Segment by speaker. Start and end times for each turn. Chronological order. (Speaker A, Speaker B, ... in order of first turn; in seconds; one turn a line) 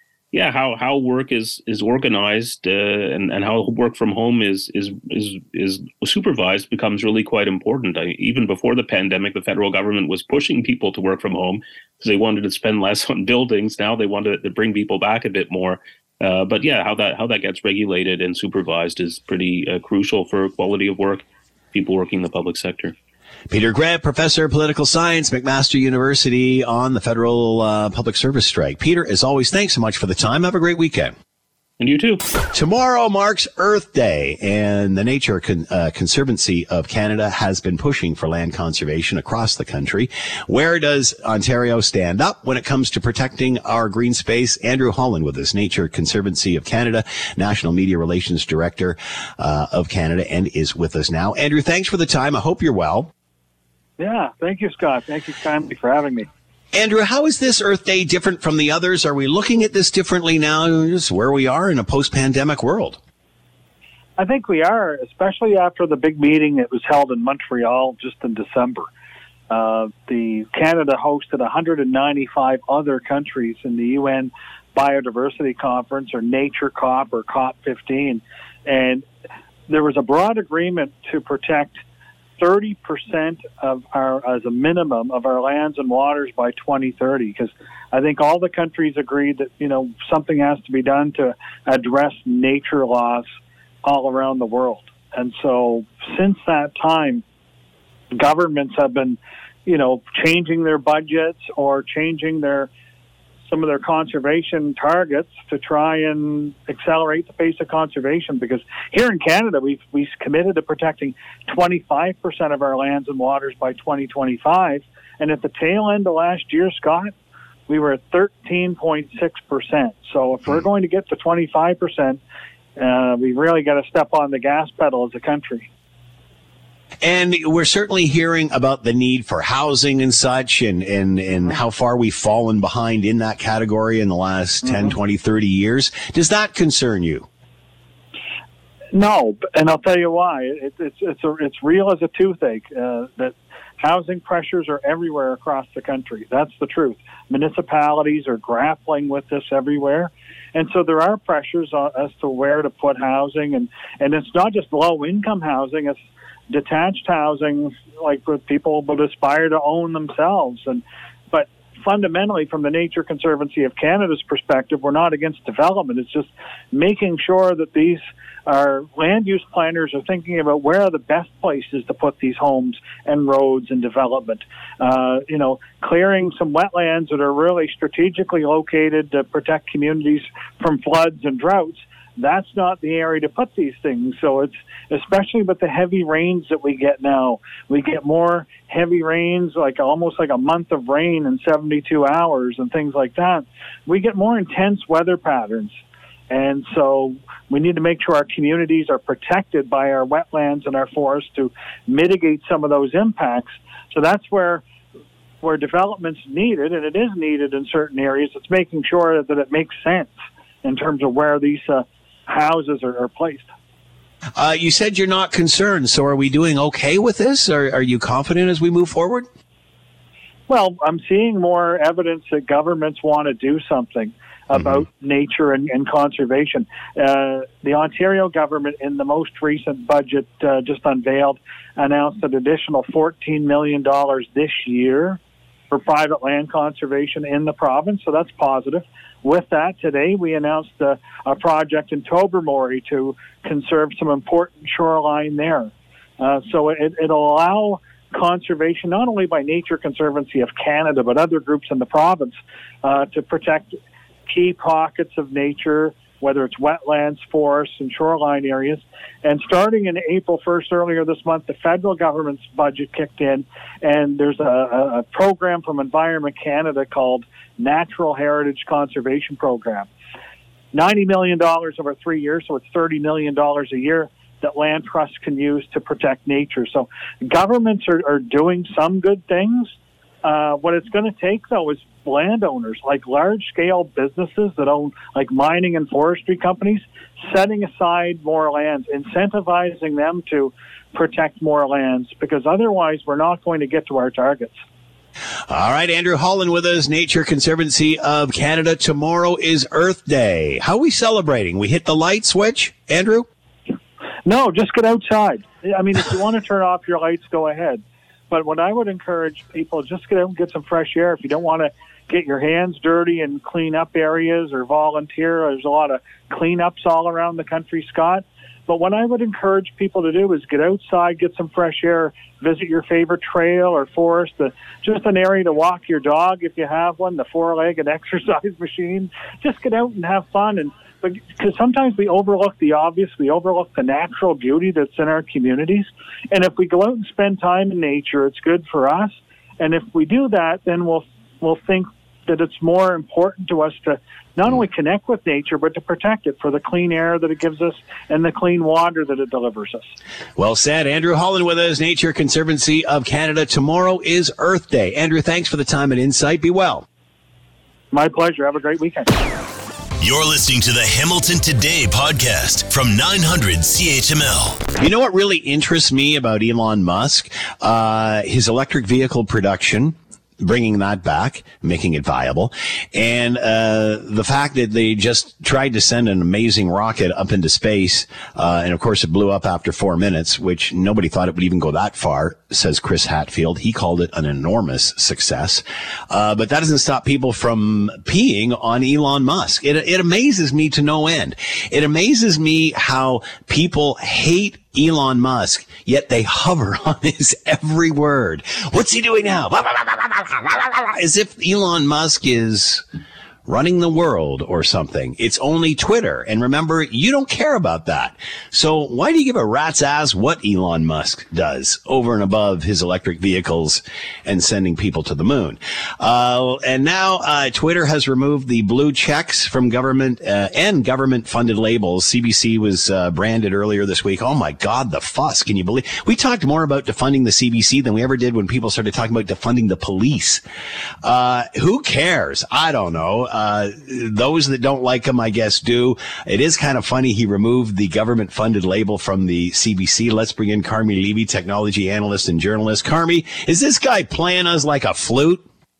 Speaker A: 0.3-22.9
Speaker B: 23.5-31.1
Speaker A: 31.8-32.2
Speaker B: 32.5-53.1
Speaker C: 54.0-56.3
Speaker B: 56.7-63.0
Speaker C: 64.2-68.9
Speaker C: 69.5-79.0
Speaker C: 79.7-81.8
Speaker C: 82.4-93.3
Speaker C: 93.8-97.2
Speaker C: 98.1-102.7
Speaker C: 103.4-117.1
Speaker C: 117.7-122.2
Speaker C: 122.8-125.7
Speaker B: 127.0-137.3
Speaker C: 134.6-134.9
Speaker C: 138.9-195.8
Speaker C: 196.3-204.6
Speaker C: 205.4-213.4
Speaker B: 214.4-219.3
Speaker C: 220.5-235.2
Speaker B: 224.5-224.8
Speaker C: 235.7-269.9
Speaker C: 270.7-294.6
Speaker B: 295.5-303.3
Speaker C: 304.2-349.9
Speaker B: 350.4-356.9
Speaker C: 357.9-359.1
Speaker D: 360.0-364.7
Speaker B: 364.8-402.8
Speaker B: 403.4-430.4
Speaker B: 431.0-445.4